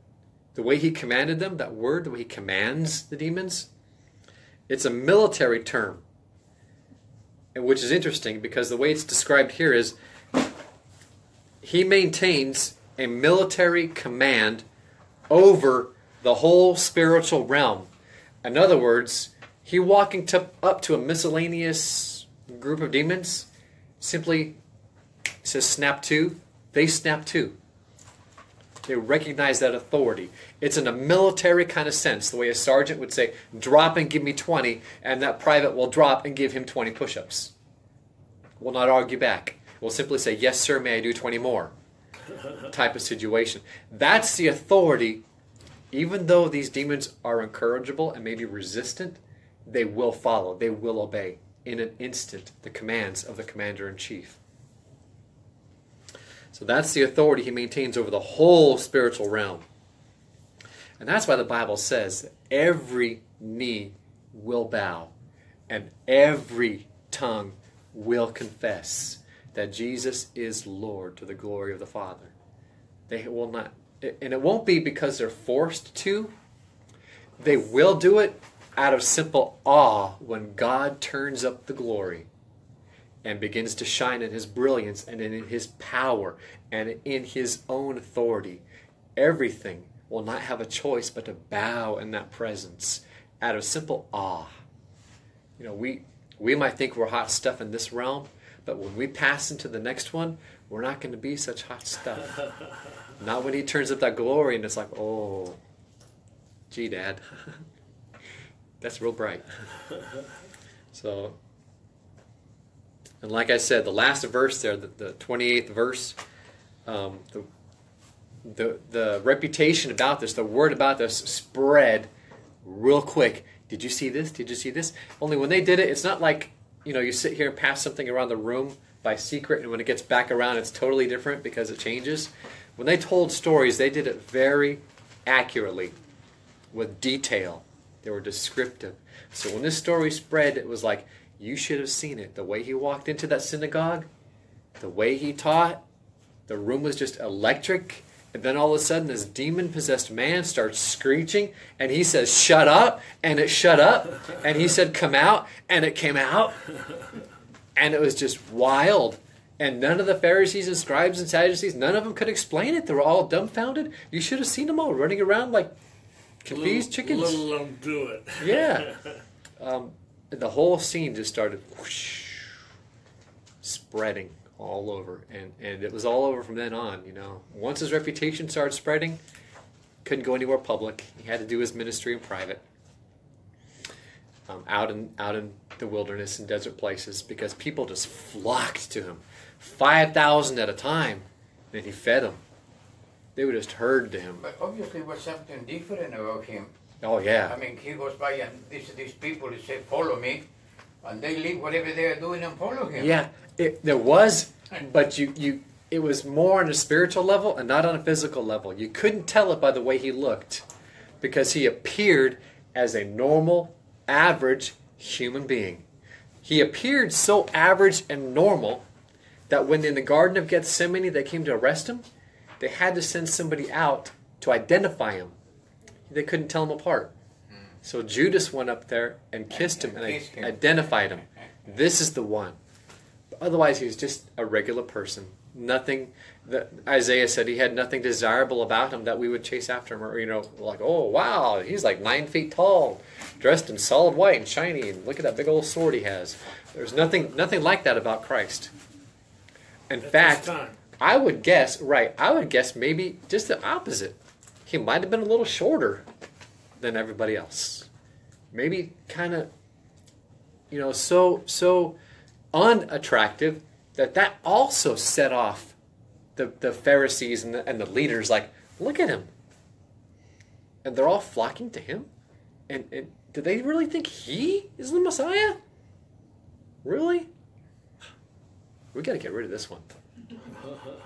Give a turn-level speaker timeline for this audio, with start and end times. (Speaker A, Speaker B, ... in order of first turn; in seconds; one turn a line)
Speaker A: 0.5-3.7
Speaker A: 4.7-6.0
Speaker A: 7.5-9.9
Speaker A: 11.6-14.6
Speaker A: 15.3-17.9
Speaker A: 18.4-23.5
Speaker A: 24.0-24.6
Speaker A: 25.4-27.6
Speaker A: 28.8-37.5
Speaker A: 38.6-41.7
Speaker A: 42.7-45.2
Speaker A: 45.9-54.4
Speaker A: 56.5-59.6
Speaker A: 61.0-65.1
Speaker A: 65.7-72.3
Speaker A: 73.1-76.3
Speaker A: 77.4-82.3
Speaker A: 83.2-88.6
Speaker A: 89.2-94.5
Speaker A: 95.6-102.3
Speaker A: 103.2-105.6
Speaker A: 106.7-107.5
Speaker A: 108.8-109.4
Speaker A: 110.9-111.4
Speaker A: 113.2-116.2
Speaker A: 116.8-117.5
Speaker A: 118.4-122.1
Speaker A: 122.6-135.9
Speaker A: 136.7-144.1
Speaker A: 144.8-145.8
Speaker A: 146.5-156.6
Speaker A: 157.8-165.7
Speaker A: 166.4-167.4
Speaker B: 166.5-169.0
Speaker A: 168.4-168.9
Speaker A: 169.6-172.6
Speaker A: 173.6-179.2
Speaker A: 180.0-182.6
Speaker A: 184.5-192.4
Speaker A: 193.3-194.4
Speaker C: 194.4-196.7
Speaker A: 197.0-197.6
Speaker C: 197.4-200.5
Speaker C: 201.0-203.1
Speaker A: 202.9-210.6
Speaker A: 211.2-215.8
Speaker A: 216.4-218.8
Speaker A: 219.5-222.0
Speaker A: 222.6-225.3
Speaker A: 226.1-227.1
Speaker A: 227.8-232.6
Speaker C: 229.5-230.6
Speaker A: 233.4-248.7
Speaker A: 249.9-256.1
Speaker B: 250.0-250.8
Speaker A: 256.8-257.9
Speaker A: 258.5-259.5
Speaker A: 260.7-262.0
Speaker A: 262.5-265.8
Speaker A: 266.4-269.3
Speaker A: 270.8-272.1
Speaker A: 272.7-275.6
Speaker A: 276.8-277.3
Speaker A: 278.9-279.9